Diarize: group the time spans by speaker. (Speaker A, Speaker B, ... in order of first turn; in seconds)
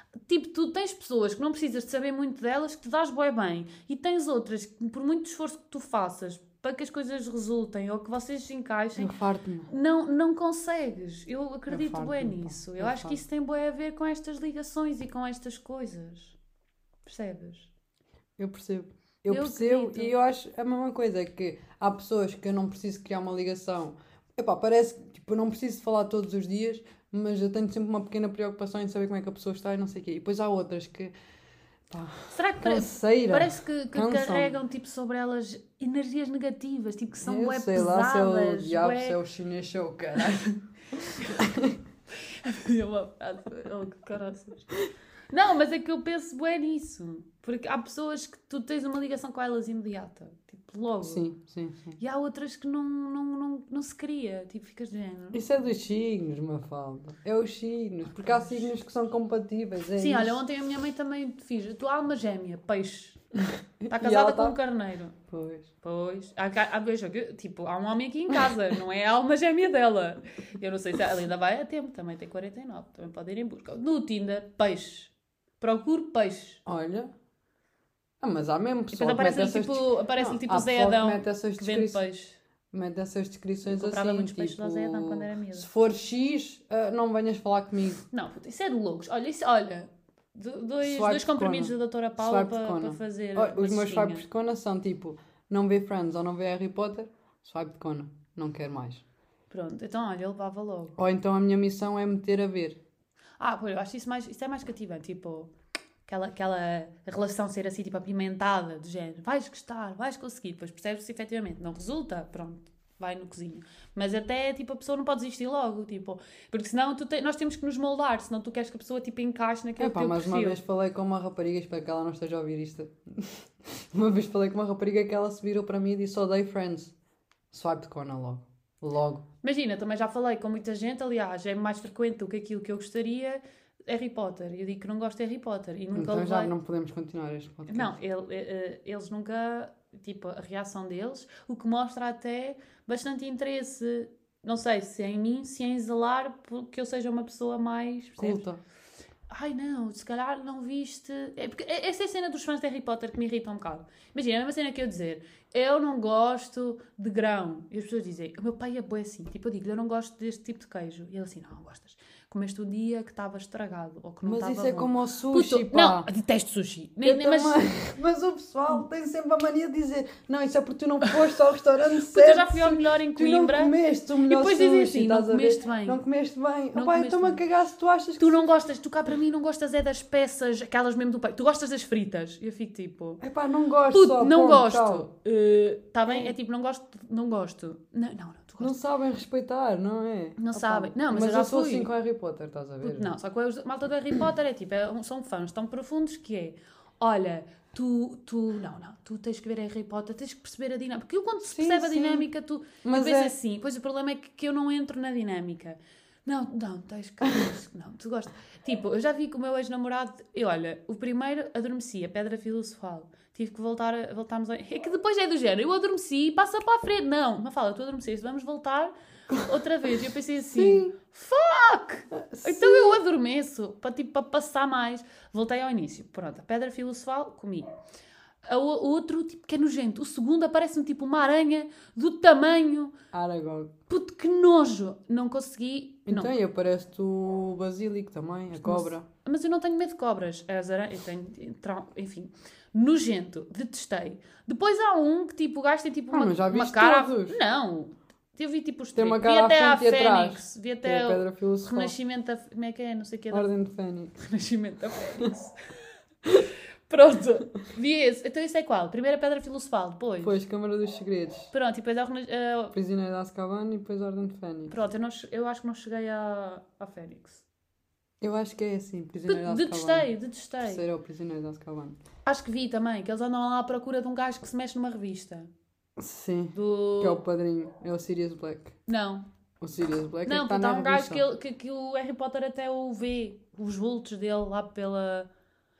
Speaker A: 0.3-9.1, 9.7-16.4, 17.1-17.7, 19.3-20.1, 32.3-39.2, 42.4-44.7, 45.3-51.2, 52.0-55.4, 58.2-58.7, 60.0-63.2, 63.9-65.2, 65.8-76.6, 78.9-82.4, 83.7-85.7, 88.1-94.2, 99.5-101.0, 103.4-105.5, 106.0-120.6, 129.4-136.5, 137.7-148.4, 149.3-167.7, 172.1-176.0, 176.7-177.4, 178.2-183.2, 183.9-188.8, 190.4-191.9, 192.8-227.7, 228.4-232.9, 233.9-236.3, 238.6-253.5, 254.2-255.5, 256.9-260.4, 261.5-262.7, 264.7-267.4, 269.2-270.9, 272.2-275.5, 276.5-277.2, 278.9-279.3, 280.2-285.3
Speaker B: 9.0-9.7, 11.7-13.2, 18.4-31.1, 31.9-34.5, 37.2-41.8, 51.0-52.0, 55.3-60.4, 63.5-64.6, 65.3-65.7, 76.7-77.1, 78.2-82.0, 82.7-88.0, 90.8-99.0, 101.0-102.8, 119.8-126.9, 127.5-129.2, 135.9-137.9, 148.2-148.6, 164.2-166.1, 167.0-178.4, 183.2-185.1, 186.0-186.3, 188.6-193.2, 201.4-202.3, 202.8-203.3, 220.5-220.9, 222.1-223.0, 233.1-233.7, 236.1-239.1, 246.1-247.4, 248.9-251.9, 253.3-254.2, 260.2-261.5, 262.7-264.7, 268.2-272.0, 276.0-278.8, 279.6-281.2